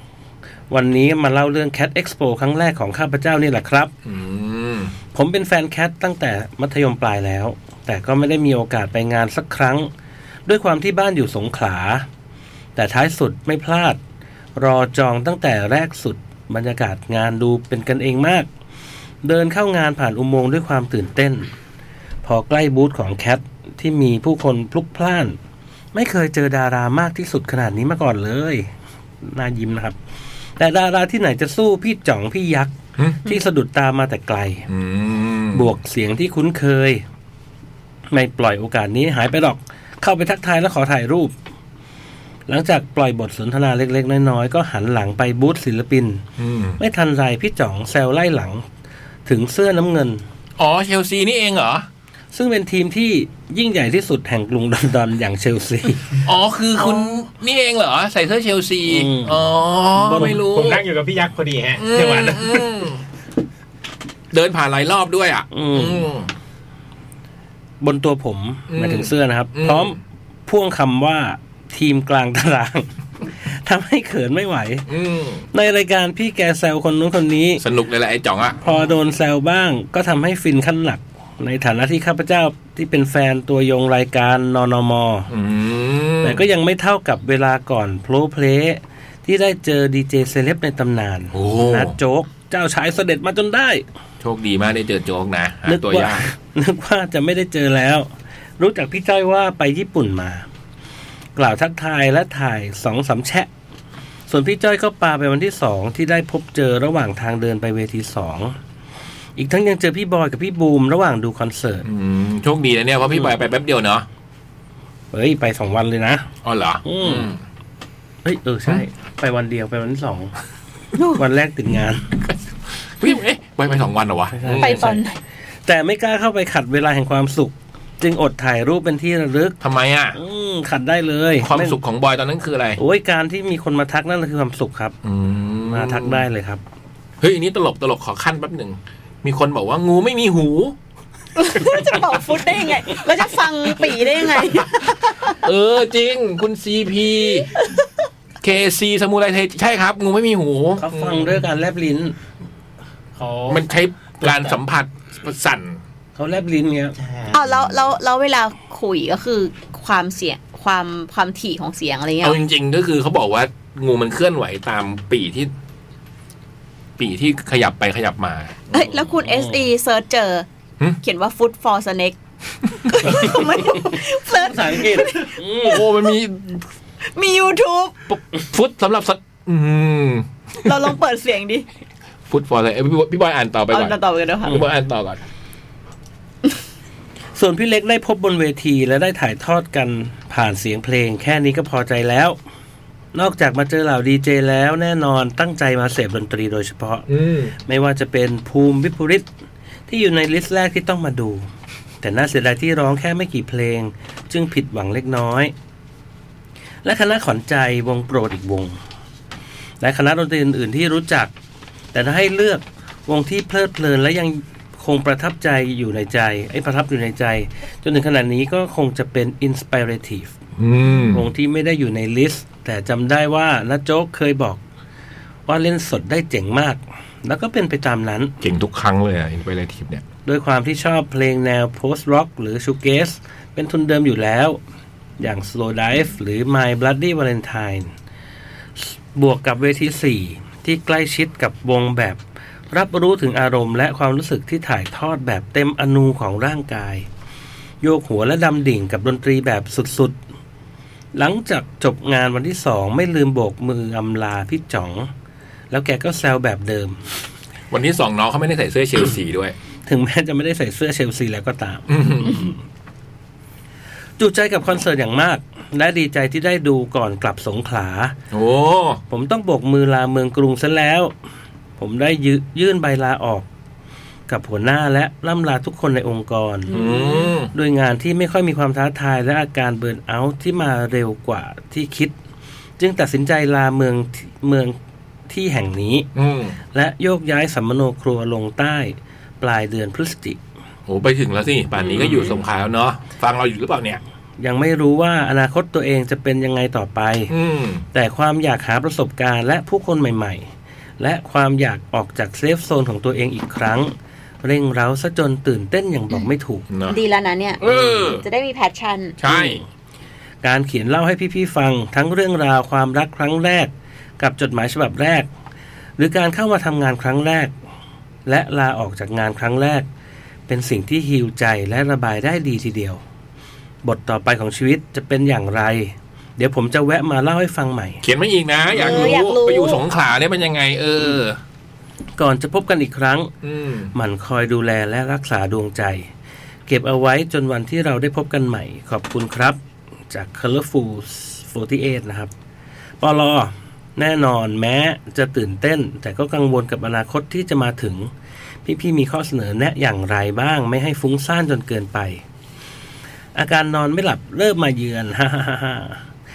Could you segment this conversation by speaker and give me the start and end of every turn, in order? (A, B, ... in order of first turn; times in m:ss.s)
0:00.7-0:03.9 A
0:04.0-0:05.0 B
0:05.1-0:09.9 A
0:10.5-0:12.1 A
0:12.8-0:14.0 A
0:14.6-0:18.5 A
0:19.2-0:21.5 A
0:22.2-0:25.4 A
0:25.9-0:28.7 A
0:29.2-0:30.0 A
0:30.6-0:34.7 A
0:33.0-0:33.4 B
0:34.7-0:35.7 B
0:35.5-0:37.0 A
0:38.1-0:41.3 A
0:42.5-0:46.2 A
0:46.4-0:46.8 B
0:46.8-0:48.6 A
0:49.3-0:50.2 A
0:50.6-0:51.9 B
0:52.3-0:56.2 A
0:56.2-1:00.8 B
0:58.9-1:00.4 A
1:00.1-1:02.9 C
1:01.8-1:03.0 B
1:04.3-1:06.3 B
1:05.5-1:06.1 A
1:07.8-1:14.9 A
1:08.7-1:10.0 B
1:14.9-1:15.5 B
1:15.5-1:17.6 A
1:17.6-1:18.8 B
1:18.6-1:25.3 A
1:25.3-1:26.4 B
1:26.2-1:33.8 A
1:31.3-1:32.0 B
1:34.2-1:36.3 B
1:35.7-1:40.4 A
1:41.4-1:43.5 A
1:44.3-1:48.6 A
1:49.4-1:51.9 A
1:51.8-1:54.1 B
1:55.1-1:56.3 A
1:56.4-1:57.4 B
1:56.8-1:57.3 A
1:58.2-2:00.3 A
2:01.2-2:02.1 A
2:02.3-2:04.9 B
2:04.3-2:05.0 A
2:04.5-2:05.2 D
2:05.6-2:09.6 A
2:09.6-2:10.2 B
2:10.2-2:11.8 A
2:11.4-2:12.8 B
2:12.8-2:15.0 A
2:15.0-2:16.2 B
2:15.7-2:16.6 A
2:17.2-2:20.8 B
2:21.4-2:25.4 D
2:25.3-2:27.5 B
2:28.4-2:31.4 B
2:30.8-2:32.1 A
2:33.2-2:33.6 C
2:33.5-2:35.8 B
2:34.2-2:34.5 C
2:36.2-2:37.0 A
2:37.0-2:37.4 C
2:37.3-2:42.4 D
2:42.2-2:45.5 B
2:47.0-2:48.7 B
2:48.7-2:50.5 D
2:48.8-2:49.6 A
2:51.0-2:52.2 D
2:52.8-2:55.8 D
2:53.9-2:55.8 A
2:55.6-2:56.6 B
2:57.1-2:58.0 D
2:58.1-3:00.8 B
3:00.6-3:01.7 D
3:02.3-3:05.2 B
3:03.7-3:04.6 D
3:07.4-3:12.4 A
3:13.1-3:17.1 A
3:17.1-3:17.5 B
3:17.7-3:19.3 A
3:19.9-3:21.5 A
3:22.0-3:25.5 A
3:26.8-3:28.8 A
3:29.8-3:31.3 A
3:31.9-3:40.3 A
3:40.6-3:41.3 B
3:41.1-3:44.6 A
3:45.5-3:48.3 A
3:48.4-3:50.0 B
3:50.3-3:54.6 A
3:55.2-3:57.9 A
3:58.8-4:02.2 A
4:02.7-4:07.1 A
4:07.8-4:10.2 A
4:11.1-4:15.1 A
4:15.7-4:17.0 A
4:17.7-4:19.6 B
4:19.9-4:22.6 A
4:21.9-4:22.5 B
4:24.2-4:28.2 A
4:28.3-4:29.0 B
4:29.1-4:31.1 A
4:31.8-4:33.5 A
4:34.3-4:36.8 A
4:36.7-4:37.3 D
4:36.7-4:37.5 B
4:37.5-4:42.1 A
4:42.8-4:44.8 A
4:45.3-4:46.1 A
4:46.2-4:46.6 B
4:46.7-4:50.4 A
4:50.9-4:54.0 B
4:54.4-4:57.3 A
4:57.3-4:57.8 B
4:57.9-5:00.5 A
5:01.0-5:06.7 A
5:06.7-5:07.0 B
5:06.9-5:09.2 D
5:07.6-5:08.2 B
5:09.2-5:09.6 B
5:09.3-5:09.6 A
5:10.4-5:15.3 A
5:16.0-5:17.5 A
5:18.3-5:19.8 A
5:20.5-5:23.0 A
5:23.8-5:28.0 A
5:28.0-5:31.4 B
5:28.7-5:29.8 D
5:32.2-5:33.3 A
5:33.4-5:33.9 B
5:34.0-5:36.1 A
5:36.7-5:39.6 A
5:40.1-5:42.3 A
5:43.0-5:48.1 A
5:48.7-5:52.2 A
5:53.4-5:56.0 A